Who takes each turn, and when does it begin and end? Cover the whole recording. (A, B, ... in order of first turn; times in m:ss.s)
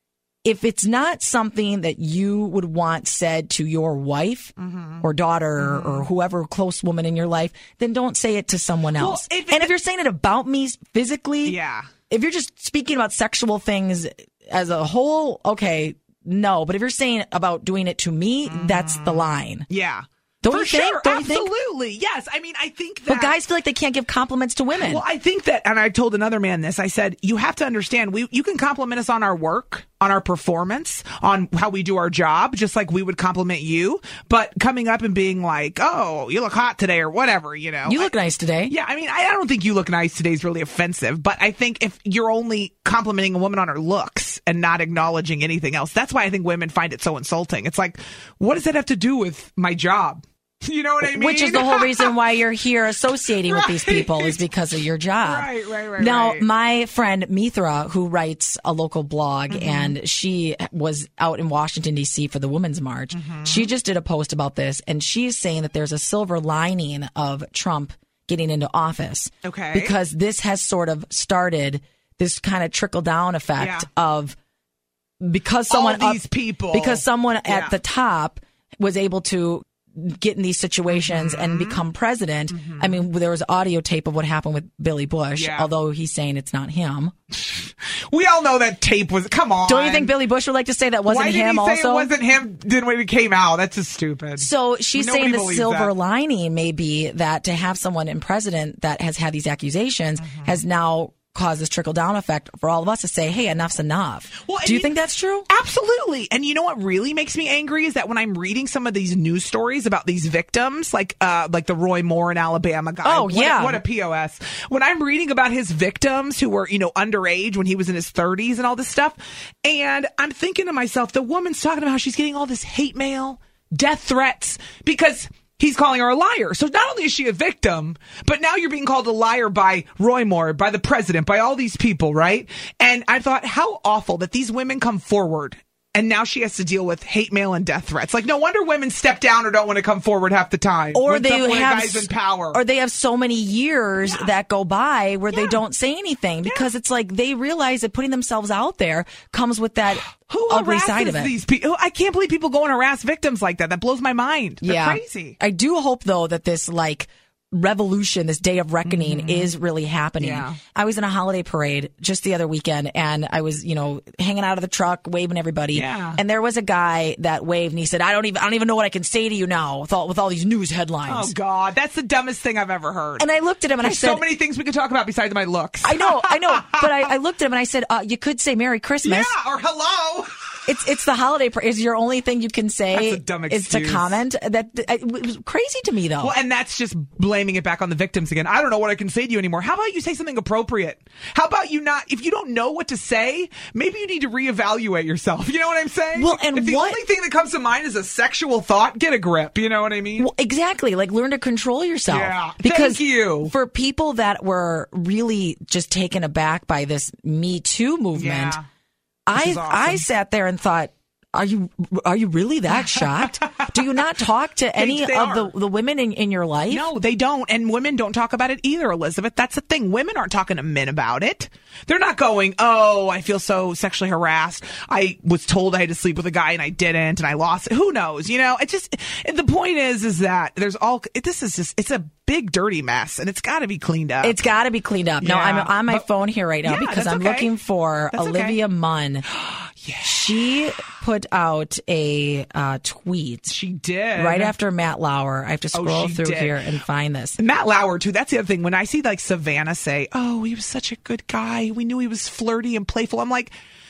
0:00.4-0:11.6 A
0:04.6-0:05.1 B
0:05.6-0:06.1 B
0:08.9-0:09.7 B
0:11.4-0:11.9 B
0:12.1-0:19.6 A
0:18.5-0:23.3 B
0:20.4-0:21.5 A
0:23.1-0:25.0 A
0:24.7-0:38.1 B
0:37.8-0:38.7 A
0:38.7-0:52.1 B
0:51.0-1:14.4 A
0:53.4-0:54.4 B
0:55.2-0:56.5 B
0:59.5-0:59.9 B
1:03.1-1:03.7 B
1:09.4-1:10.0 B
1:13.6-1:13.9 B
1:15.2-1:27.1 A
1:15.7-1:17.7 B
1:20.9-1:21.8 B
1:22.5-1:23.0 B
1:25.4-1:25.7 B
1:27.3-1:30.1 B
1:29.6-1:32.1 A
1:31.0-1:35.9 B
1:34.4-1:45.5 A
1:40.2-1:40.6 B
1:44.4-1:44.9 B
1:45.5-2:22.6 B
1:53.0-1:53.8 A
2:20.9-2:31.3 A
2:25.3-2:25.6 B
2:30.2-2:35.4 B
2:34.6-2:51.3 A
2:38.8-2:39.5 B
2:40.2-2:40.6 B
2:45.7-2:46.2 B
2:51.0-2:53.3 B
2:53.2-2:54.2 A
2:53.8-2:56.8 B
2:55.8-2:59.3 A
2:59.0-3:00.3 B
3:00.7-3:06.3 A
3:02.9-3:04.2 B
3:06.2-3:20.3 B
3:16.1-3:17.0 A
3:20.2-3:28.6 A
3:22.1-3:23.5 B
3:28.1-3:28.6 B
3:29.3-3:36.9 A
3:29.3-3:30.0 B
3:32.7-3:33.9 B
3:34.8-3:35.5 B
3:36.7-3:54.4 B
3:54.2-3:59.2 A
3:55.2-3:56.0 B
3:56.6-3:57.5 B
3:58.1-3:58.6 B
3:59.4-4:00.4 B
4:00.0-4:03.5 A
4:03.5-4:04.5 B
4:04.1-4:07.4 A
4:05.7-4:06.6 B
4:07.4-4:13.5 B